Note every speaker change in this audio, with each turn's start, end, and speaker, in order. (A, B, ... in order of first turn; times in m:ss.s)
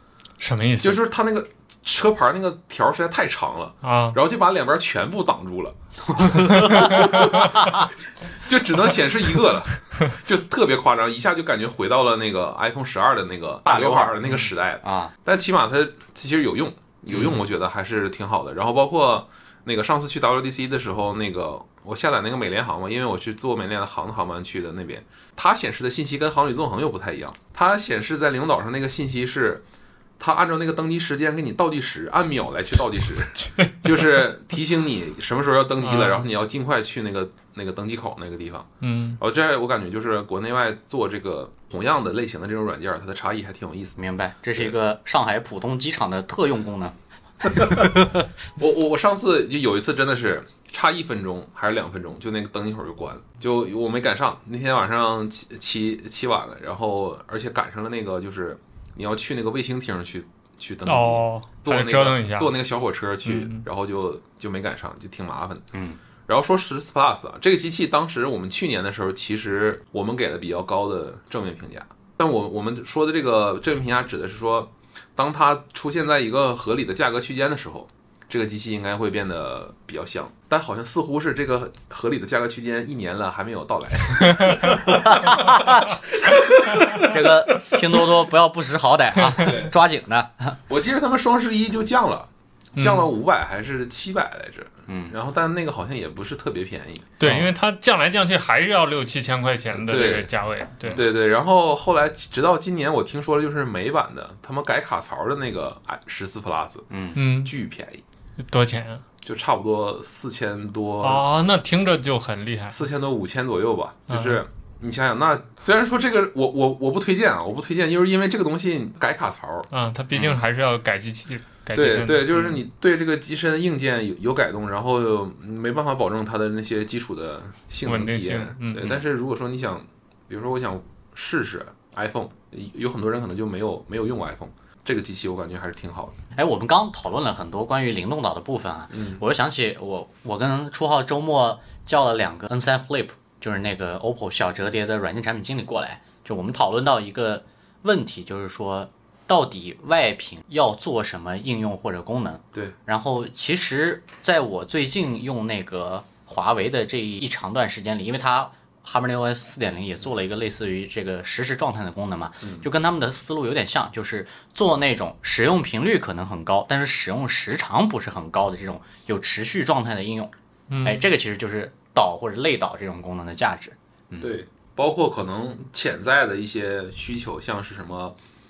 0:00.4-0:01.0 A
0:00.8-0:29.6 B
0:03.8-0:04.2 A
0:06.0-0:07.9 C
0:13.7-0:15.1 C
0:30.2-0:44.0 B
0:35.8-0:36.3 A
0:38.8-0:39.2 A
0:44.0-0:47.0 C
0:47.5-0:47.9 C
0:47.5-0:47.9 B
0:48.6-1:05.7 B
1:00.9-1:02.5 A
1:03.2-1:03.6 A
1:05.7-1:06.0 C
1:06.3-1:27.4 B
1:24.8-1:26.0 C
1:27.0-1:30.6 C
1:29.3-1:29.7 B
1:30.7-1:37.2 B
1:32.8-1:33.1 A
1:34.9-1:35.2 C
1:37.2-1:41.0 A
1:37.2-1:37.5 C
1:39.7-1:40.3 B
1:40.9-1:46.9 B
1:46.9-1:47.2 C
1:47.2-1:47.5 A
1:47.4-1:48.0 B
1:48.4-1:49.0 A
1:49.2-1:51.2 B
1:51.0-1:52.8 A
1:52.7-1:59.7 B
1:54.1-1:54.4 A
1:59.7-2:02.6 A
2:01.8-2:16.2 B
2:07.8-2:09.0 A
2:16.4-2:50.3 C
2:18.9-2:19.2 B
2:42.4-2:42.7 B
2:50.7-2:51.1 A
2:50.8-2:54.4 C
2:54.2-2:58.2 B